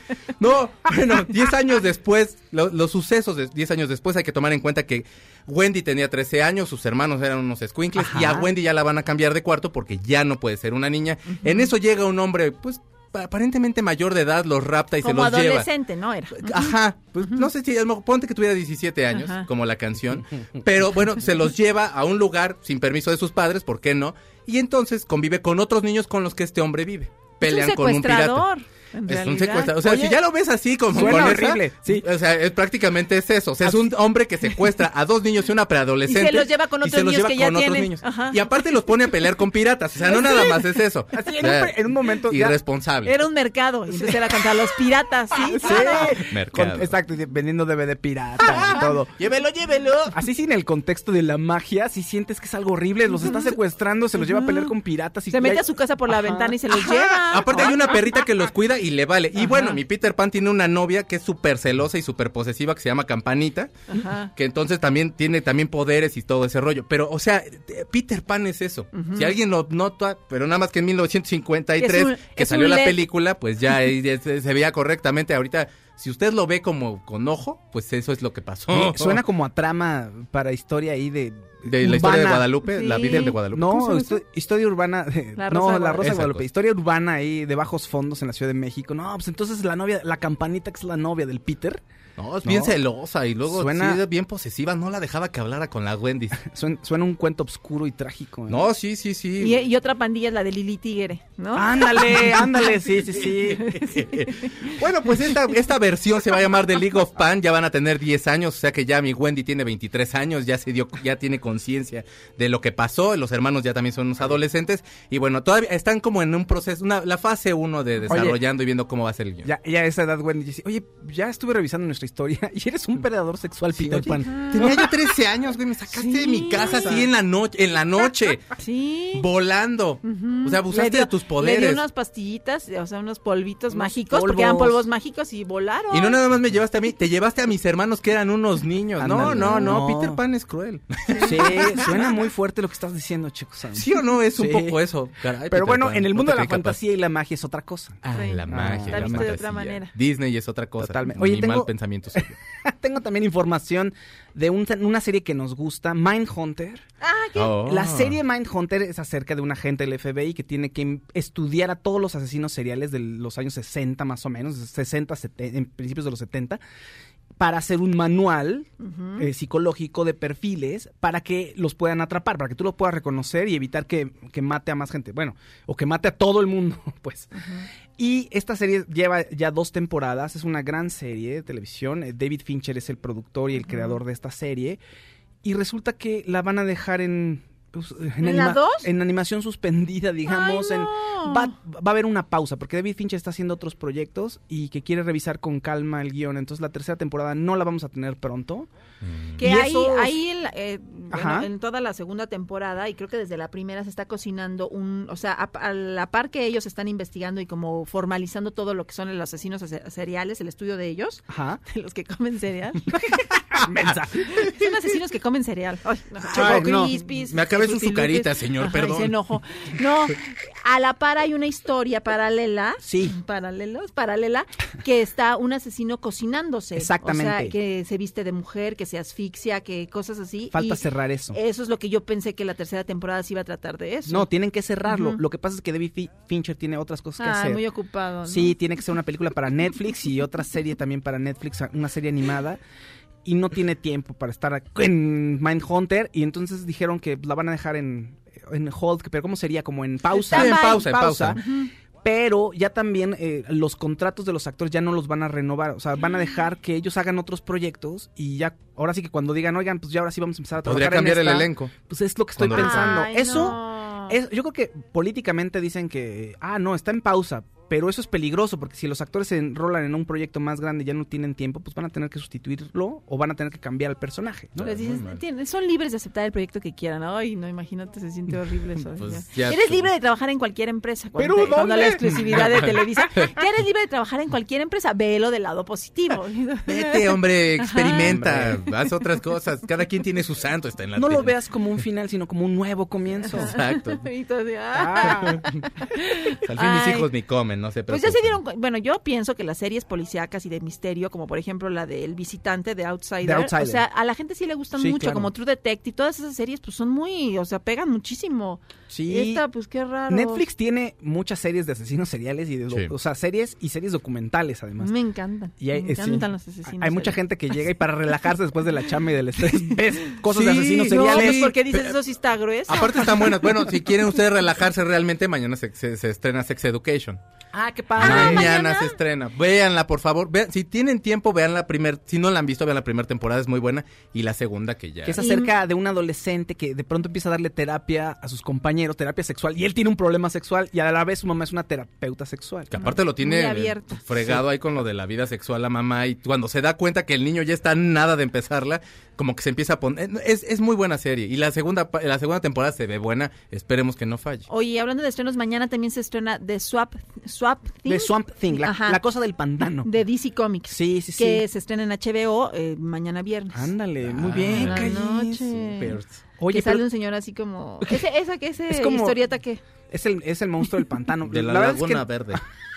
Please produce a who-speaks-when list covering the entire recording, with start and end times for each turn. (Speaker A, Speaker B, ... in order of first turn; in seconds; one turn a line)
Speaker A: 0.4-15.7
Speaker B: 7.9-8.5
Speaker C: 11.3-11.7
Speaker C: 15.0-17.4
Speaker A: 16.3-28.4
Speaker C: 19.1-19.5
Speaker C: 27.4-29.7
Speaker A: 29.1-43.2
Speaker B: 29.8-30.2
Speaker B: 30.9-32.1
Speaker B: 33.6-33.9
Speaker C: 36.0-38.4
Speaker B: 40.1-40.5
Speaker B: 41.1-42.6
Speaker C: 43.0-46.1
Speaker B: 43.9-44.2
Speaker B: 45.5-49.2
Speaker A: 46.1-46.9
Speaker A: 48.6-50.1
Speaker B: 50.1-56.8
Speaker C: 53.2-53.5
Speaker C: 54.2-54.7
Speaker C: 55.3-57.9
Speaker A: 56.7-63.7
Speaker C: 63.9-64.3
Speaker A: 64.3-79.2
Speaker C: 68.9-69.3
Speaker C: 71.8-73.0
Speaker B: 78.7-91.8
Speaker A: 81.6-84.2
Speaker C: 82.7-83.4
Speaker C: 85.3-86.2
Speaker A: 86.0-86.4
Speaker A: 92.2-96.4
Speaker B: 92.4-92.8
Speaker B: 93.5-94.0
Speaker B: 96.4-98.7
Speaker A: 98.5-99.6
Speaker C: 99.4-102.5
Speaker B: 101.5-103.7
Speaker A: 103.5-119.5
Speaker C: 103.7-104.5
Speaker B: 118.1-118.4
Speaker B: 119.4-124.9
Speaker A: 123.7-128.5
Speaker C: 124.3-124.8
Speaker C: 125.9-127.0
Speaker B: 126.6-127.1
Speaker C: 128.6-129.2
Speaker A: 129.1-131.8
Speaker C: 130.0-136.2
Speaker B: 133.7-134.8
Speaker A: 135.9-142.0
Speaker B: 139.0-140.2
Speaker C: 139.1-139.7
Speaker C: 141.1-141.7
Speaker B: 141.2-144.8
Speaker A: 143.7-146.8
Speaker B: 145.4-149.4
Speaker A: 148.0-152.4
Speaker C: 148.1-149.9
Speaker B: 150.8-156.8
Speaker C: 157.0-157.6
Speaker A: 157.3-158.2
Speaker B: 157.6-166.6
Speaker B: 167.4-184.8
Speaker C: 168.8-169.2
Speaker C: 177.3-177.7
Speaker C: 183.7-184.0
Speaker B: 185.4-198.7
Speaker C: 188.2-188.9
Speaker C: 190.3-191.5
Speaker A: 199.0-199.4
Speaker B: 199.4-200.2
Speaker C: 199.4-213.2
Speaker B: 201.1-201.5
Speaker B: 211.3-211.6
Speaker B: 213.5-214.4
Speaker C: 214.3-234.3
Speaker B: 216.2-216.9
Speaker A: 216.3-219.2
Speaker B: 222.8-223.2
Speaker B: 226.8-227.6
Speaker B: 230.5-231.4
Speaker B: 234.1-237.6
Speaker C: 234.9-235.2
Speaker C: 237.2-238.6
Speaker B: 238.2-242.6
Speaker B: 243.2-251.4
Speaker C: 250.1-251.7
Speaker A: 250.3-251.4
Speaker B: 252.0-274.6
Speaker A: 260.6-261.7
Speaker A: 262.4-263.0
Speaker C: 262.5-264.1
Speaker A: 274.6-275.2
Speaker C: 274.6-288.1
Speaker A: 279.0-279.9
Speaker B: 281.2-282.8
Speaker A: 282.1-283.3
Speaker A: 286.7-291.3
Speaker B: 288.0-288.6
Speaker B: 290.9-293.5
Speaker A: 293.3-294.0
Speaker C: 293.4-297.1
Speaker B: 294.7-295.4
Speaker A: 295.1-295.4
Speaker A: 296.4-298.4
Speaker C: 297.9-310.4
Speaker B: 303.2-303.8
Speaker B: 304.8-305.3
Speaker B: 308.9-309.4
Speaker B: 310.1-314.9
Speaker C: 314.8-317.2
Speaker B: 315.6-321.5
Speaker A: 320.2-321.9
Speaker C: 320.9-323.3
Speaker A: 322.7-327.2
Speaker B: 327.5-328.5
Speaker C: 328.0-328.9
Speaker A: 328.0-335.2
Speaker B: 335.0-342.8
Speaker C: 335.2-335.5
Speaker A: 342.7-354.5
Speaker C: 342.8-344.0
Speaker C: 354.5-359.0
Speaker B: 357.9-359.9
Speaker C: 359.8-363.7
Speaker B: 360.7-361.4
Speaker B: 363.5-365.4
Speaker A: 364.1-366.1
Speaker C: 364.4-366.0
Speaker B: 366.4-366.9
Speaker C: 366.5-369.6
Speaker B: 368.7-369.2
Speaker B: 369.9-372.4
Speaker A: 371.3-372.4